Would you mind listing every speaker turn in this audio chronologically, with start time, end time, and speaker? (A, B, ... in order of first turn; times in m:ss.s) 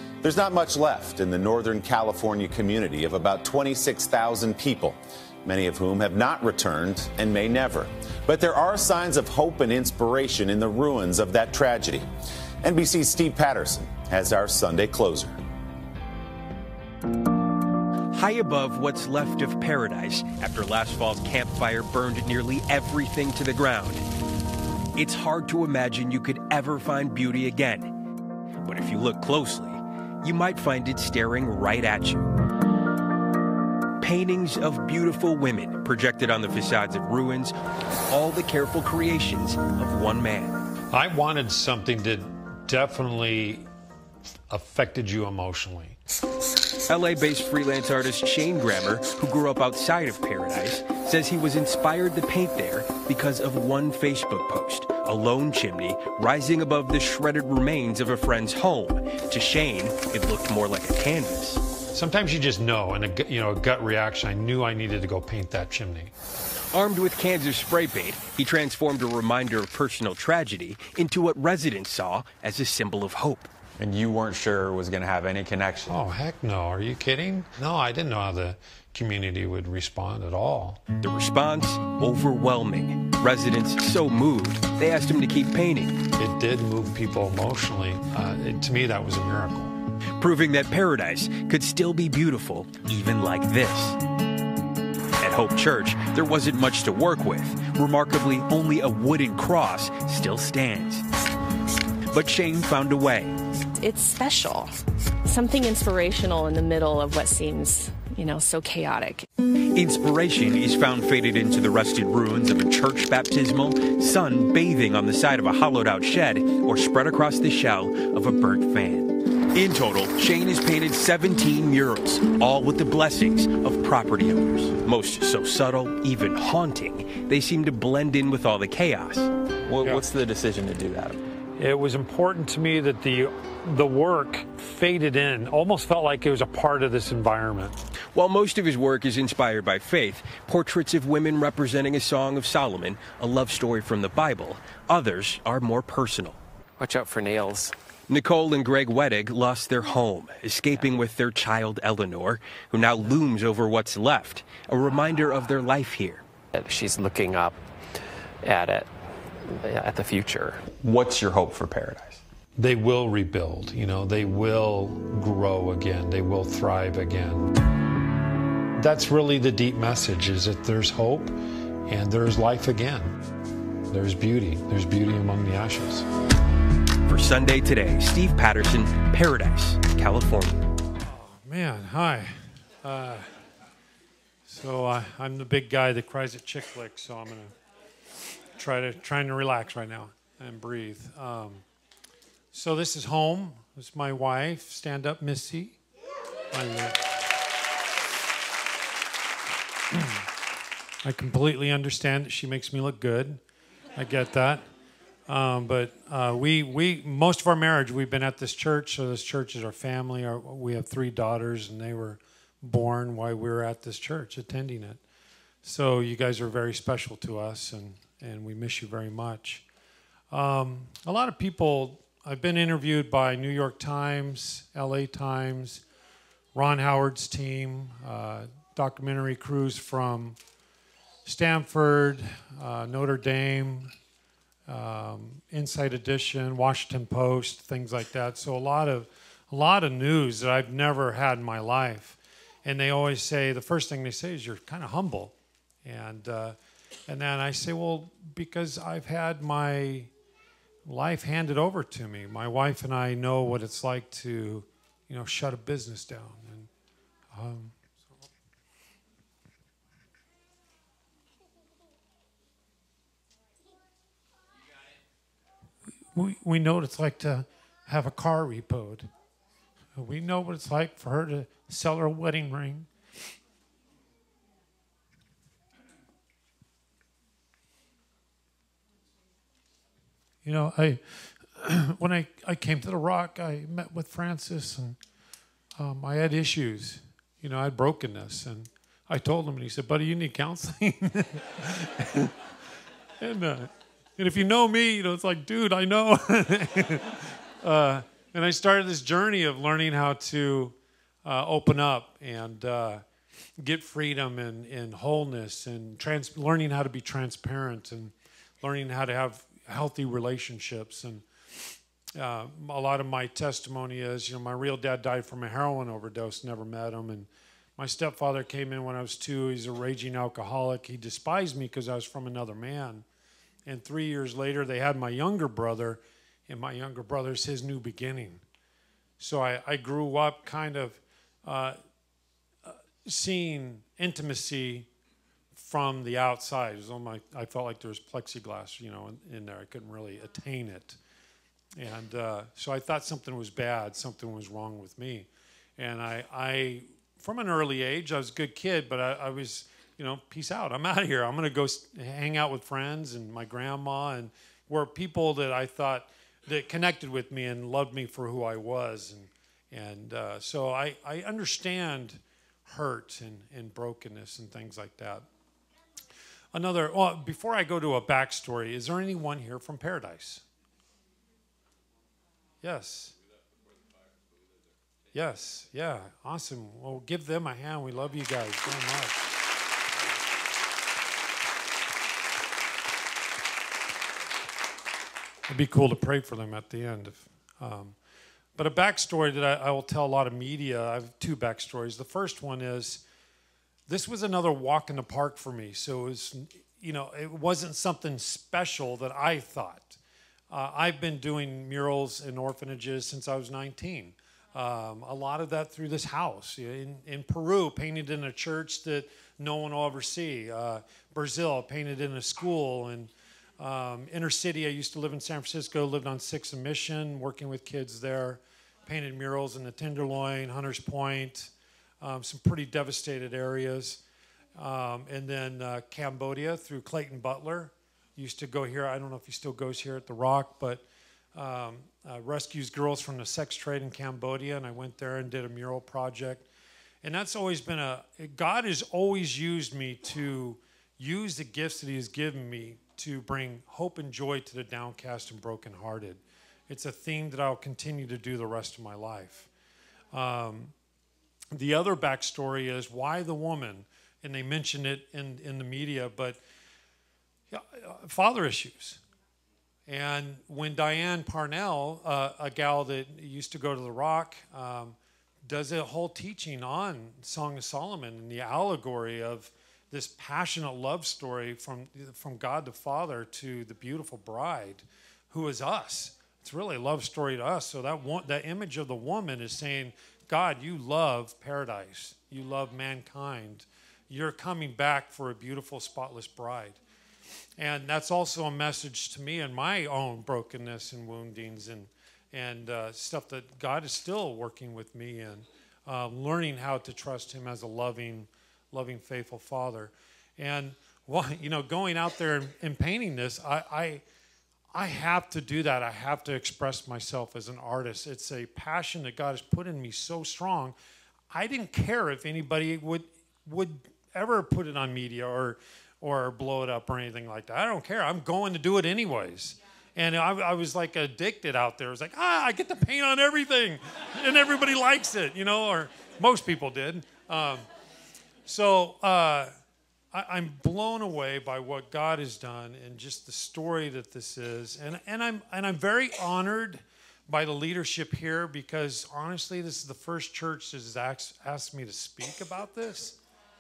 0:00.2-0:12.0 A
0:12.6-0:15.4 A
0:18.1-0:24.0 B
0:24.9-0:27.9 B
0:28.6-0:32.3 B
0:34.0-0:37.5 B
0:38.1-0:40.6 B
0:40.9-0:43.7 C
0:44.5-0:46.0 C
0:46.9-1:01.6 B
1:01.9-1:06.1 C
1:06.7-1:13.5 B
1:13.8-1:15.9 D
1:15.9-1:20.8 C
1:21.0-1:26.0 B
1:26.2-1:29.7 C
1:30.2-1:34.0 B
1:35.2-1:41.0 B
1:42.1-1:43.3 B
1:43.8-1:49.3 E
1:49.7-2:09.3 B
2:09.7-2:11.2 D
2:11.6-2:17.8 C
2:18.1-2:26.4 B
2:26.8-2:27.7 F
2:28.1-2:36.2 B
2:36.5-2:37.6 F
2:38.4-2:38.9 F
2:39.4-2:40.6 F
2:40.7-2:42.2 D
2:42.6-2:47.5 C
2:48.8-2:53.1 C
2:53.9-2:56.1 C
2:57.0-3:00.6 B
3:01.0-3:03.2 C
3:04.4-3:07.5 C
3:08.5-3:11.6 C
3:12.5-3:15.8 C
3:16.5-3:17.0 C
3:19.9-3:20.2 C
3:21.0-3:23.4 C
3:24.0-3:24.6 C
3:25.3-3:35.0 C
3:35.6-3:39.6 C
3:40.3-3:45.8 C
3:46.5-3:50.4 C
3:51.2-3:53.9 C
3:54.7-4:06.6 C
4:07.1-4:10.1 C
4:10.8-4:16.7 C
4:17.3-4:17.7 C
4:26.1-4:29.1 C
4:29.9-4:32.9 C
4:40.4-4:41.0 C
4:41.5-4:45.0 C
4:45.8-4:52.3 C
4:53.2-5:03.0 C
5:03.6-5:23.0 C
5:23.6-5:28.4 C
5:29.2-5:31.8 C
5:32.6-5:34.9 C
5:35.5-5:41.0 C
5:41.8-6:05.2 C
6:06.5-6:10.4 C
6:12.6-6:13.1 C
6:15.1-6:19.4 C
6:25.5-6:28.0 C
6:28.5-6:33.0 C
6:33.9-6:40.0 C
6:40.5-7:04.0 C
7:04.6-7:16.5 C
7:17.0-7:29.5 C
7:30.1-7:30.7 C
7:31.5-7:36.4 C
7:37.5-7:39.0 C
7:39.8-8:06.8 C
8:07.6-8:24.0 C
8:24.7-8:30.8 C
8:31.3-8:47.6 C
8:48.4-8:49.5 C
8:50.1-9:03.2 C